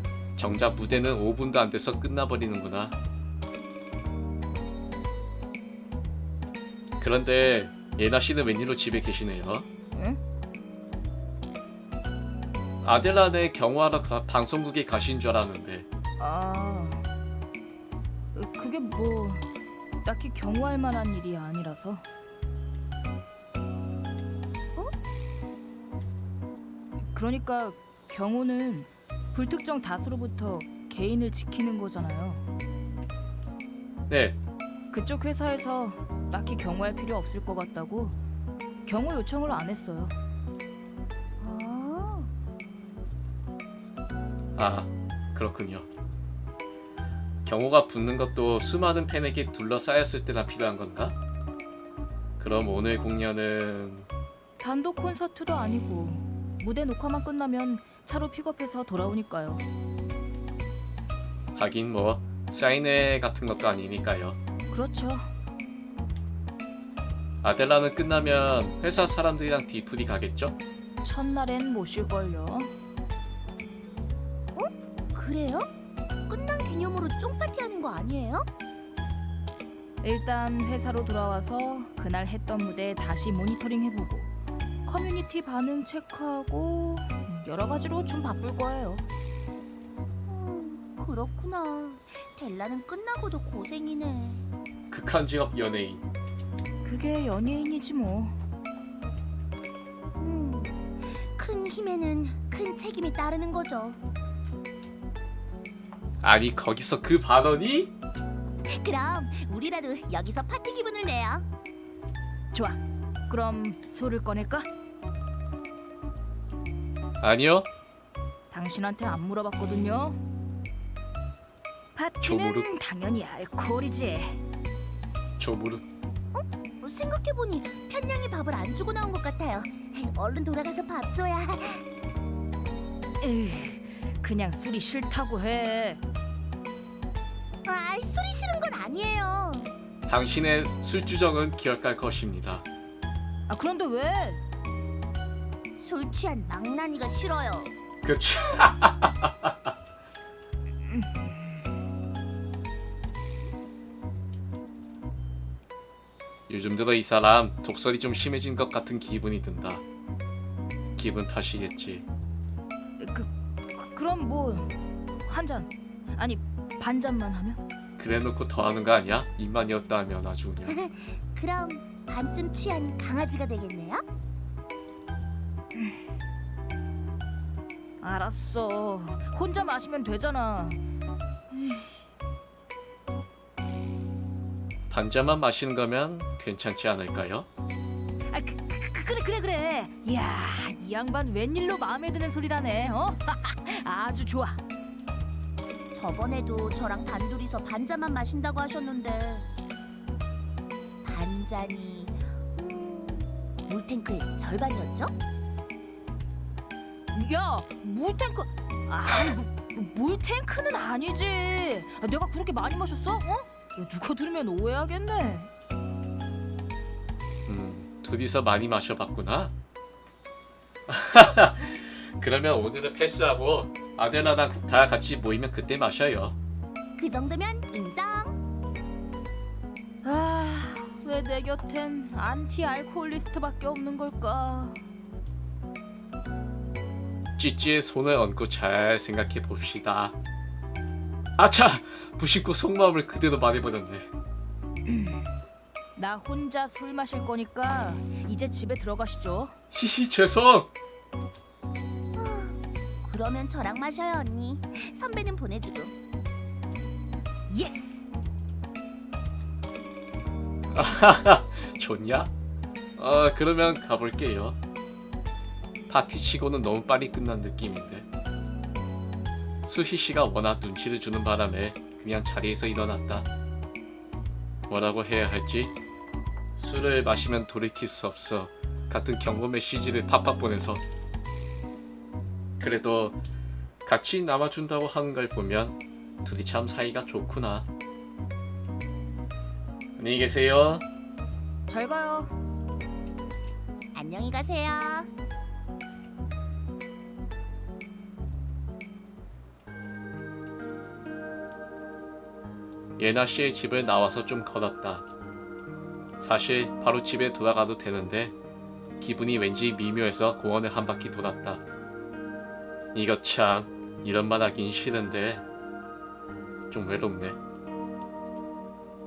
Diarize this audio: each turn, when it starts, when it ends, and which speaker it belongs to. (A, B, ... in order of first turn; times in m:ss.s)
0:00.4-0:03.0 A
0:07.0-0:09.7 A
0:09.9-0:10.2 B
0:12.8-0:15.9 A
0:16.2-0:17.1 B
0:18.4-0:19.5 B
0:20.0-0:22.0 B
0:27.1-0:32.4 B
0:34.1-0:34.4 A
0:34.9-0:38.2 B
0:38.9-0:40.1 B
0:41.4-0:42.3 C
0:44.6-0:45.9 A
0:47.4-0:51.2 A
0:52.4-0:54.1 A
0:54.6-0:59.6 B
1:01.6-1:04.4 A
1:04.7-1:05.3 B
1:07.4-1:10.6 A
1:11.0-1:12.7 B
1:14.6-1:15.7 C
1:16.3-1:18.5 C
1:20.0-1:24.3 B
1:24.8-1:29.0 B
1:30.3-1:34.4 C
1:34.9-1:36.0 A
1:36.8-1:38.3 B
1:40.2-1:44.0 C
1:46.2-1:47.9 A
1:48.7-1:51.5 C
1:52.5-1:54.7 B
1:57.2-1:57.7 A
1:58.5-2:00.2 B
2:02.0-2:04.4 B
2:02.2-2:02.7 A
2:05.4-2:05.8 A
2:06.3-2:11.8 C
2:13.2-2:16.0 B
2:17.6-2:19.8 C
2:20.1-2:22.6 A
2:23.5-2:24.4 B
2:25.8-2:27.7 C
2:28.0-2:29.6 A
2:30.9-2:31.5 B
2:36.5-2:39.8 A
2:41.0-2:42.1 A
2:43.0-2:47.6 B
2:48.0-2:50.8 A
2:50.7-2:54.0 C
2:58.0-3:00.8 B
3:01.5-3:02.0 B
3:04.9-3:07.5 A
3:08.3-3:14.6 B
3:15.9-3:19.5 C
3:21.0-3:25.1 C
3:27.1-3:35.5 B
3:37.5-3:39.5 A
3:40.9-3:46.4 A
3:47.0-3:48.4 C
3:50.0-3:54.8 B
3:57.4-4:00.2 A
4:01.4-4:04.1 A
4:04.8-4:05.3 B
4:06.0-4:09.6 B
4:09.7-4:10.7 A
4:12.2-4:16.0 C
4:17.5-4:18.1 C
4:20.7-4:22.3 A
4:23.0-4:24.6 A
4:25.9-4:28.1 A
4:29.7-4:33.3 A
4:34.7-4:35.8 A
4:36.6-4:40.8 A
4:42.6-4:43.2 A
4:43.8-4:47.7 A
4:50.0-4:50.8 A
4:51.7-4:52.4 B
4:53.9-4:55.1 C
5:03.0-5:05.1 A
5:06.2-5:08.3 A
5:09.0-5:11.6 A
5:12.9-5:15.4 A
5:16.7-5:17.4 A